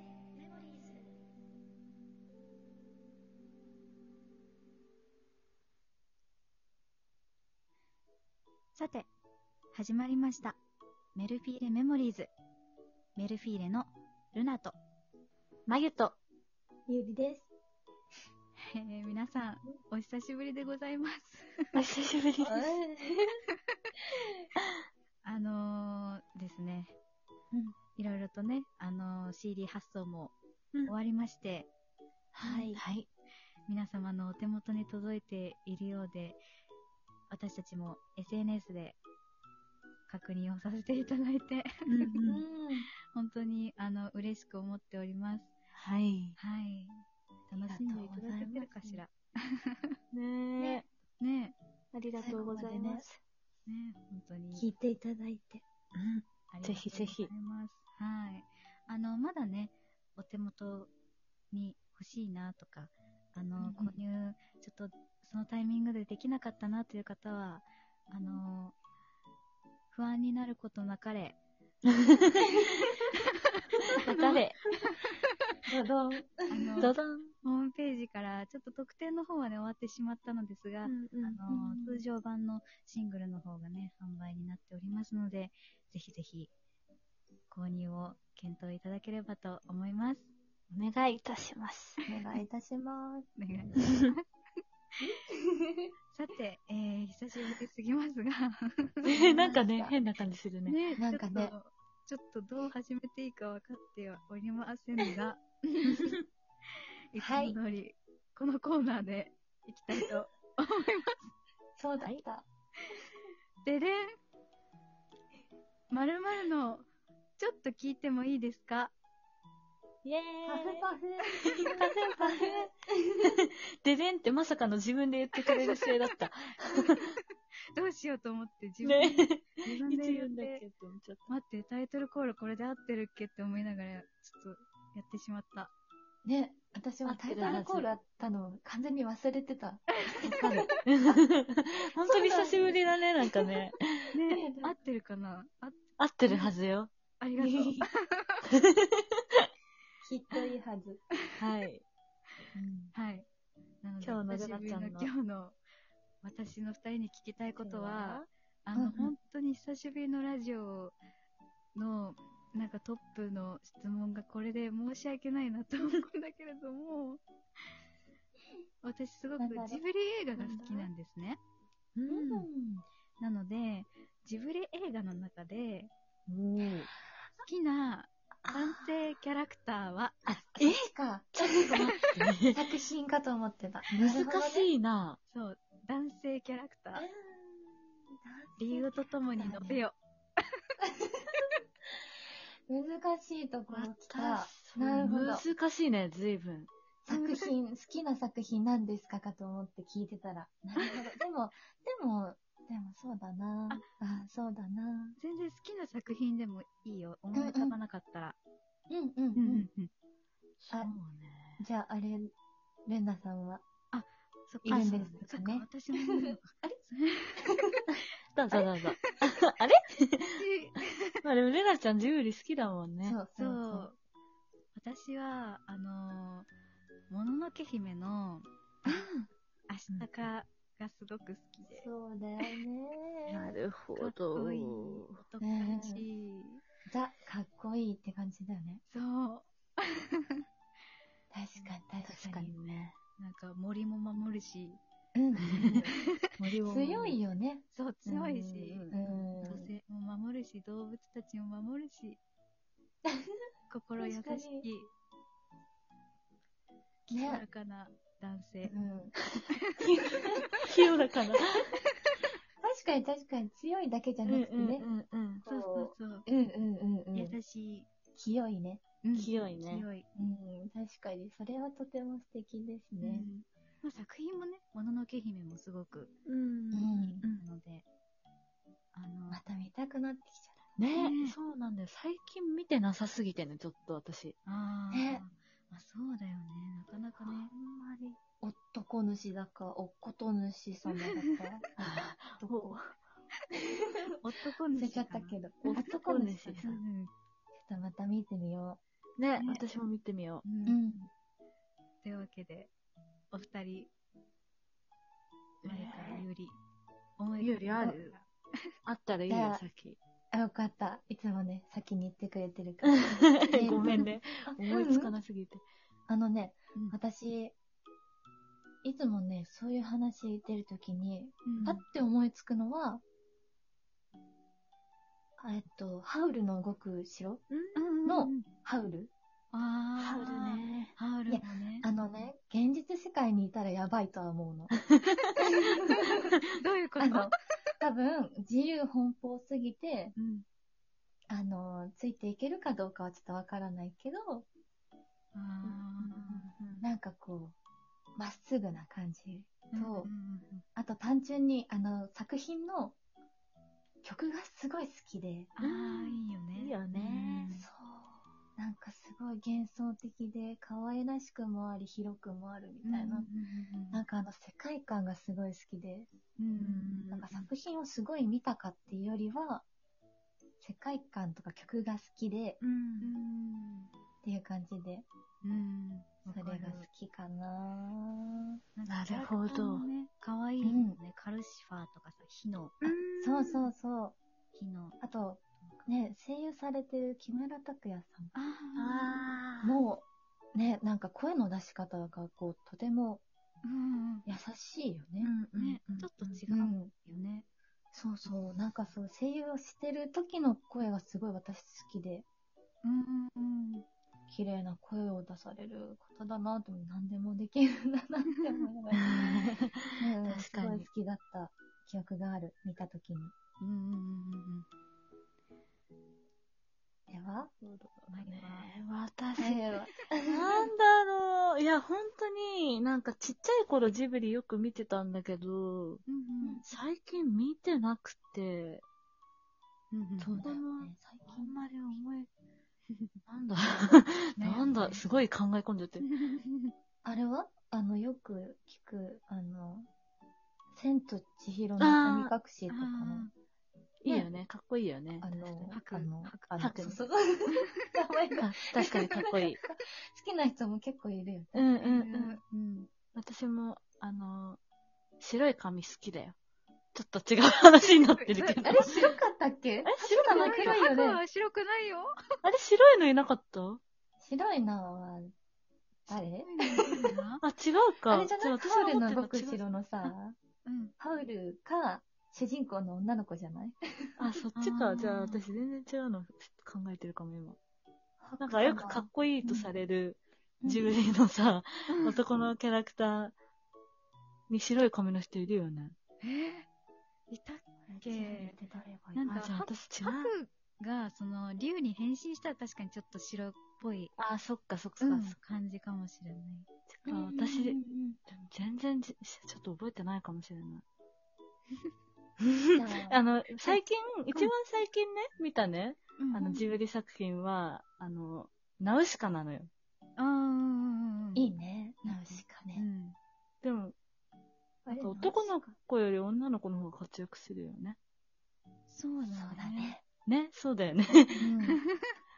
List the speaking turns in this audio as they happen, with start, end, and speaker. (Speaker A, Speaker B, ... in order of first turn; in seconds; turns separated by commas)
Speaker A: 0.3-1.0, Speaker A: 8.8-9.1, Speaker A: 9.7-10.6, Speaker A: 11.1-12.3, Speaker A: 13.1-14.8, Speaker B: 15.7-16.2, Speaker C: 16.9-17.5, Speaker A: 18.6-21.8, Speaker B: 21.7-22.8, Speaker C: 22.4-23.4, Speaker A: 25.2-26.9, Speaker A: 27.9-30.3, Speaker A: 30.9-31.7, Speaker C: 32.3-32.8, Speaker B: 32.5-33.1, Speaker A: 33.7-36.4, Speaker A: 37.3-39.0, Speaker A: 40.1-42.1, Speaker B: 41.9-42.4, Speaker C: 42.2-42.9, Speaker A: 43.1-45.5, Speaker B: 45.8-46.4, Speaker A: 46.4-49.9, Speaker C: 47.7-49.0, Speaker B: 50.1-50.9, Speaker C: 50.6-50.8, Speaker A: 51.2-51.5, Speaker B: 51.9-53.2, Speaker C: 52.1-53.0, Speaker A: 53.6-54.7, Speaker C: 54.5-55.6, Speaker B: 55.9-57.3, Speaker A: 56.5-60.9, Speaker A: 61.5-68.7, Speaker C: 63.6-63.9, Speaker A: 69.9-71.4, Speaker B: 72.1-72.7, Speaker A: 73.9-75.3, Speaker B: 74.0-74.6, Speaker C: 75.7-76.9, Speaker A: 76.5-86.5, Speaker B: 76.8-77.3, Speaker B: 80.8-81.4, Speaker C: 81.5-81.9, Speaker A: 87.5-90.3, Speaker B: 90.7-92.1, Speaker C: 92.1-93.2, Speaker A: 93.3-94.2, Speaker C: 95.6-95.9, Speaker A: 96.1-99.5, Speaker B: 99.0-100.8, Speaker C: 99.1-99.9, Speaker A: 100.7-106.1, Speaker C: 101.0-101.5, Speaker A: 107.1-111.2, Speaker C: 107.2-107.6, Speaker C: 111.8-112.5, Speaker A: 113.6-114.2, Speaker A: 115.9-118.9, Speaker B: 120.0-120.8, Speaker C: 120.4-122.7, Speaker B: 121.5-122.7, Speaker B: 123.2-127.1, Speaker A: 126.9-127.2, Speaker A: 127.8-130.6, Speaker B: 128.8-131.3, Speaker A: 131.3-135.7, Speaker C: 136.2-140.7, Speaker B: 137.0-137.9, Speaker B: 140.2-144.1, Speaker A: 140.3-140.7, Speaker C: 142.0-142.8, Speaker A: 144.1-146.5, Speaker C: 144.3-144.7, Speaker B: 146.0-146.9, Speaker A: 147.2-148.4, Speaker C: 147.4-147.9, Speaker B: 148.6-149.4, Speaker C: 150.0-151.0, Speaker B: 151.3-151.8, Speaker C: 152.5-152.9, Speaker A: 152.9-153.3, Speaker A: 153.8-155.6, Speaker B: 154.0-155.1, Speaker A: 156.2-160.9, Speaker C: 157.6-159.1, Speaker A: 161.7-167.2, Speaker A: 168.8-171.4, Speaker C: 169.4-169.8, Speaker C: 170.4-170.9, Speaker B: 171.9-172.5, Speaker C: 172.1-172.8, Speaker A: 173.2-175.9, Speaker B: 176.3-176.9, Speaker A: 177.4-180.2, Speaker C: 178.4-178.9, Speaker B: 180.3-182.6, Speaker C: 180.5-181.9, Speaker C: 182.5-184.7, Speaker B: 184.0-185.2, Speaker A: 185.3-187.1, Speaker C: 186.9-189.8, Speaker A: 188.6-190.0, Speaker C: 190.8-191.2, Speaker C: 192.7-195.4, Speaker B: 193.7-196.7, Speaker C: 197.0-205.2, Speaker A: 197.1-197.5, Speaker A: 205.2-208.4, Speaker C: 207.3-207.8, Speaker C: 208.9-209.7, Speaker A: 209.3-209.9, Speaker B: 210.6-211.6, Speaker C: 211.6-212.3, Speaker C: 212.8-213.6, Speaker A: 213.9-217.6, Speaker C: 214.6-216.8, Speaker B: 214.7-215.1, Speaker B: 218.0-220.3, Speaker A: 220.4-221.2, Speaker B: 221.2-223.2, Speaker C: 223.0-223.9, Speaker A: 223.3-224.0, Speaker A: 224.7-226.5, Speaker A: 227.1-228.5, Speaker B: 228.9-229.2, Speaker A: 229.7-231.9, Speaker C: 231.7-233.4, Speaker B: 233.3-235.1, Speaker A: 233.9-236.6, Speaker C: 235.4-236.1, Speaker C: 236.9-238.8, Speaker A: 238.9-240.4, Speaker C: 241.3-242.5, Speaker B: 242.0-242.9, Speaker A: 243.2-244.8, Speaker C: 245.1-246.0, Speaker B: 245.5-245.8, Speaker A: 245.6-246.3, Speaker B: 246.4-247.2, Speaker C: 246.6-247.6, Speaker A: 247.7-252.2, Speaker B: 248.1-248.9, Speaker C: 248.9-249.7, Speaker A: 253.7-254.9, Speaker C: 254.0-254.7, Speaker A: 257.1-258.7, Speaker C: 257.1-257.4, Speaker C: 258.6-259.1, Speaker A: 259.5-260.6, Speaker C: 259.8-260.5, Speaker B: 260.6-261.7, Speaker C: 262.6-264.9, Speaker B: 264.2-265.4, Speaker C: 265.4-267.4, Speaker A: 265.4-266.2, Speaker A: 267.1-267.9, Speaker C: 268.1-268.8, Speaker A: 269.0-270.1, Speaker B: 269.1-269.9, Speaker C: 270.1-273.3, Speaker A: 273.0-276.1, Speaker B: 276.2-277.4, Speaker C: 276.7-277.2, Speaker A: 276.9-277.8, Speaker A: 278.9-279.4, Speaker C: 279.3-280.6, Speaker B: 280.8-284.3, Speaker A: 280.9-281.4, Speaker A: 284.4-287.5, Speaker C: 284.9-285.2, Speaker B: 287.2-288.2, Speaker C: 288.4-292.8, Speaker B: 291.8-292.9, Speaker A: 294.2-295.9, Speaker C: 294.7-296.8, Speaker B: 295.6-296.8, Speaker A: 296.6-297.1, Speaker C: 297.6-298.8, Speaker B: 299.2-300.4, Speaker A: 299.4-299.6, Speaker A: 300.4-300.8, Speaker C: 300.6-301.1, Speaker A: 302.0-302.7, Speaker A: 303.3-303.9, Speaker B: 305.6-306.2, Speaker A: 305.6-306.6, Speaker A: 307.2-308.6, Speaker B: 307.4-308.1, Speaker B: 308.9-310.0, Speaker C: 309.3-309.6, Speaker C: 310.3-315.1, Speaker B: 313.0-315.6, Speaker A: 313.8-314.1, Speaker C: 316.1-317.5, Speaker C: 318.8-323.0, Speaker A: 321.4-321.8, Speaker C: 325.4-327.4, Speaker B: 327.5-327.8, Speaker A: 327.8-328.5, Speaker C: 328.0-329.1, Speaker A: 329.5-331.9, Speaker B: 330.0-330.9, Speaker C: 331.3-334.8, Speaker A: 335.2-335.7, Speaker C: 335.4-336.2, Speaker A: 336.6-337.3, Speaker C: 337.0-340.1, Speaker A: 340.1-340.4, Speaker C: 341.3-344.5, Speaker A: 345.3-346.5, Speaker B: 345.6-346.8, Speaker C: 346.8-347.6, Speaker C: 348.2-350.1, Speaker A: 349.7-350.6, Speaker C: 350.8-352.9, Speaker C: 354.0-355.5, Speaker A: 355.6-357.7, Speaker B: 355.6-357.6, Speaker C: 357.5-363.3, Speaker A: 362.8-364.0, Speaker C: 363.9-366.1, Speaker A: 366.4-367.4, Speaker B: 366.6-367.2, Speaker C: 367.1-369.6, Speaker C: 370.6-372.6, Speaker B: 372.6-373.1, Speaker A: 373.0-373.9, Speaker C: 374.2-375.1, Speaker A: 375.4-376.9, Speaker C: 376.3-378.6, Speaker A: 378.7-382.9, Speaker B: 378.9-379.9, Speaker C: 380.6-381.0, Speaker B: 382.8-383.7, Speaker C: 382.9-384.2, Speaker A: 384.5-385.0, Speaker C: 385.0-388.3, Speaker A: 388.3-389.2, Speaker B: 388.8-389.8, Speaker C: 389.6-393.2, Speaker A: 393.6-394.2, Speaker C: 394.2-395.3, Speaker B: 395.2-396.4, Speaker A: 395.6-397.5, Speaker C: 396.5-396.9, Speaker C: 397.9-402.2, Speaker A: 402.8-403.8, Speaker C: 404.3-413.3, Speaker A: 408.4-408.6, Speaker B: 409.0-410.9, Speaker A: 413.6-414.6, Speaker C: 417.1-417.9, Speaker B: 418.0-419.6, Speaker A: 418.1-418.7, Speaker C: 419.4-420.5, Speaker A: 419.4-420.6, Speaker B: 420.3-426.0, Speaker A: 426.1-426.6, Speaker B: 426.6-428.8, Speaker A: 429.9-430.4, Speaker B: 430.2-432.3, Speaker C: 430.2-431.5, Speaker B: 433.3-436.1, Speaker A: 434.4-435.0, Speaker A: 436.0-436.7, Speaker C: 437.0-439.9, Speaker C: 440.7-443.3, Speaker B: 441.8-442.3, Speaker A: 442.7-443.3, Speaker B: 444.0-445.3, Speaker C: 445.2-451.8, Speaker A: 445.7-446.6, Speaker B: 446.6-447.0, Speaker B: 448.4-449.6, Speaker B: 451.5-452.4, Speaker A: 451.8-452.9, Speaker B: 453.1-454.6, Speaker B: 455.2-456.4, Speaker B: 456.9-458.9, Speaker A: 458.1-459.2, Speaker C: 458.6-461.2, Speaker B: 459.8-460.9, Speaker A: 460.0-462.1, Speaker B: 462.4-463.8, Speaker C: 464.2-465.3, Speaker C: 466.1-467.1, Speaker A: 466.1-467.4, Speaker B: 467.4-469.6, Speaker C: 468.1-470.4, Speaker A: 470.6-470.9, Speaker C: 471.0-474.2, Speaker B: 474.2-477.6, Speaker A: 474.6-475.4, Speaker C: 478.2-479.1, Speaker B: 478.4-483.3, Speaker A: 479.4-479.7, Speaker C: 480.6-480.9, Speaker A: 481.9-482.2, Speaker B: 484.5-485.9, Speaker A: 486.2-486.7, Speaker A: 487.3-488.6, Speaker C: 487.9-489.5, Speaker A: 489.1-494.1, Speaker B: 489.2-490.3, Speaker B: 494.2-495.4, Speaker A: 495.0-496.7, Speaker B: 496.9-500.8, Speaker C: 497.1-498.2, Speaker B: 502.4-509.7, Speaker C: 502.7-503.2, Speaker A: 506.2-506.7, Speaker A: 510.2-511.5, Speaker C: 511.3-512.9, Speaker A: 512.0-513.1, Speaker B: 513.6-513.9, Speaker C: 514.9-515.5, Speaker B: 514.9-518.0, Speaker A: 518.9-519.9, Speaker C: 519.2-520.0, Speaker B: 520.2-521.5, Speaker C: 521.4-521.8